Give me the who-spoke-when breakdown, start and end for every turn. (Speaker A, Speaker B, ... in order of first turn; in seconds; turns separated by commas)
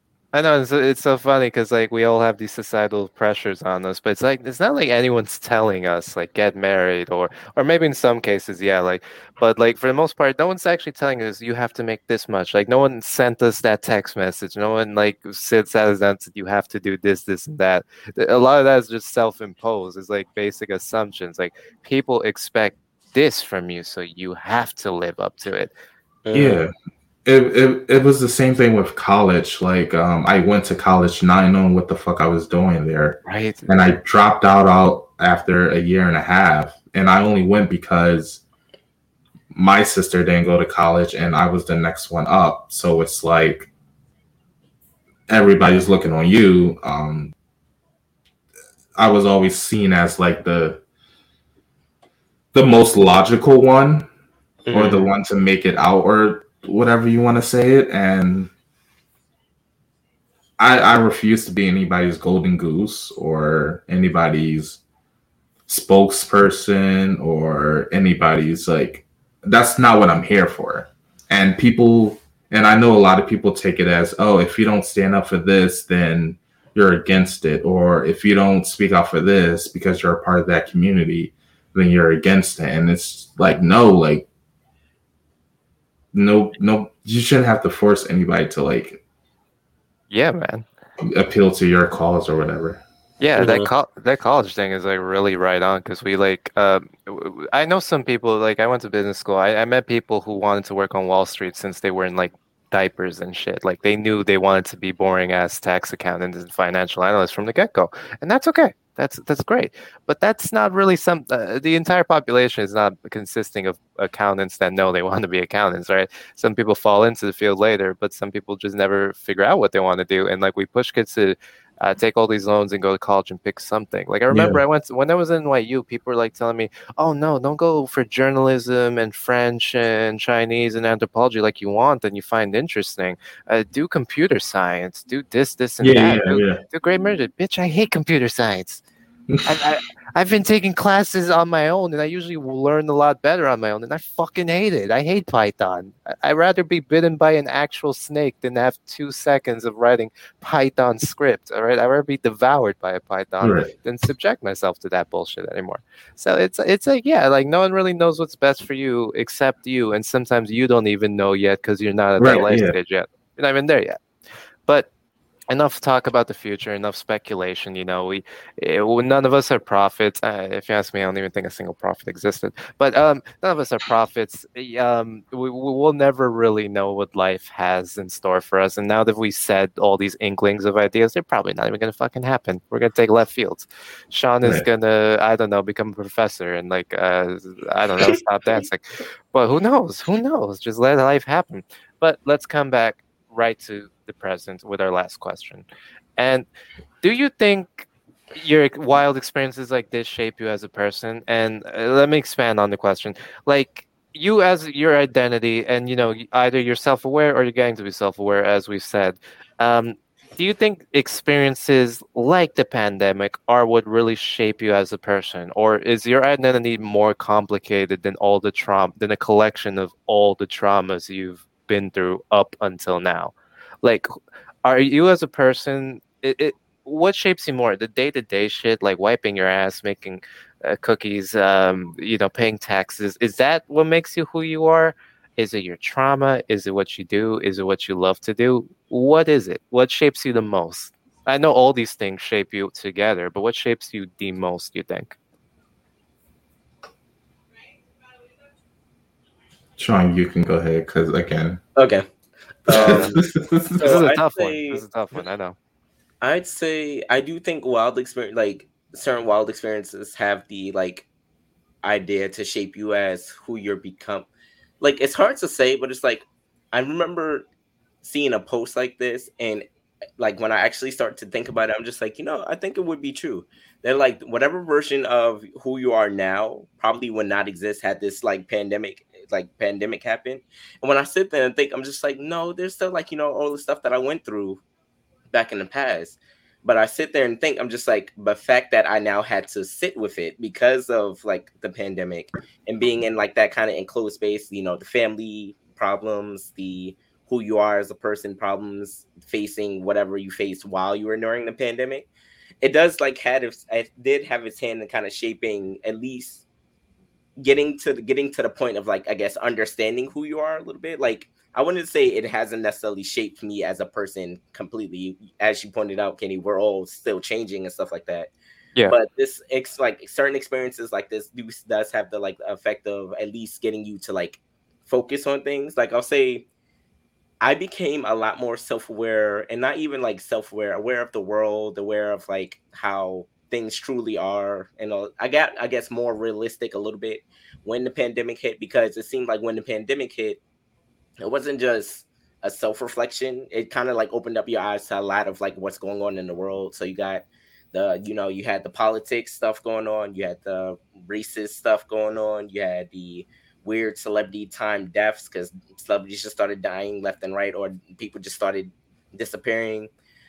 Speaker A: 0.3-25.7, Speaker B: 26.2-26.6, Speaker C: 26.3-26.7, Speaker C: 27.2-38.4, Speaker A: 33.2-33.7, Speaker C: 39.5-43.7, Speaker C: 45.3-47.3, Speaker C: 49.0-50.8, Speaker C: 52.5-54.1, Speaker B: 54.6-55.1, Speaker C: 54.7-58.5, Speaker C: 60.6-64.8, Speaker C: 65.7-84.3, Speaker C: 86.1-89.0, Speaker A: 90.1-90.7, Speaker C: 91.0-92.8, Speaker A: 93.2-138.8, Speaker B: 93.4-93.7, Speaker C: 124.3-124.6, Speaker C: 135.8-136.6, Speaker A: 139.4-164.0, Speaker C: 153.4-153.7, Speaker C: 162.2-162.7, Speaker A: 165.5-195.7, Speaker A: 196.2-196.4, Speaker A: 197.0-224.1, Speaker A: 224.6-245.2, Speaker C: 249.8-251.6, Speaker B: 251.8-252.0, Speaker B: 252.7-253.1, Speaker C: 252.7-253.9, Speaker A: 252.7-253.2, Speaker B: 253.7-254.8, Speaker A: 253.8-255.6, Speaker B: 256.2-261.1, Speaker B: 261.8-264.3, Speaker B: 264.8-267.4, Speaker B: 268.0-269.6, Speaker B: 270.2-284.6, Speaker B: 285.3-302.1, Speaker B: 302.6-306.4, Speaker B: 307.4-318.3, Speaker B: 318.9-326.4, Speaker B: 327.4-340.4, Speaker B: 341.2-359.9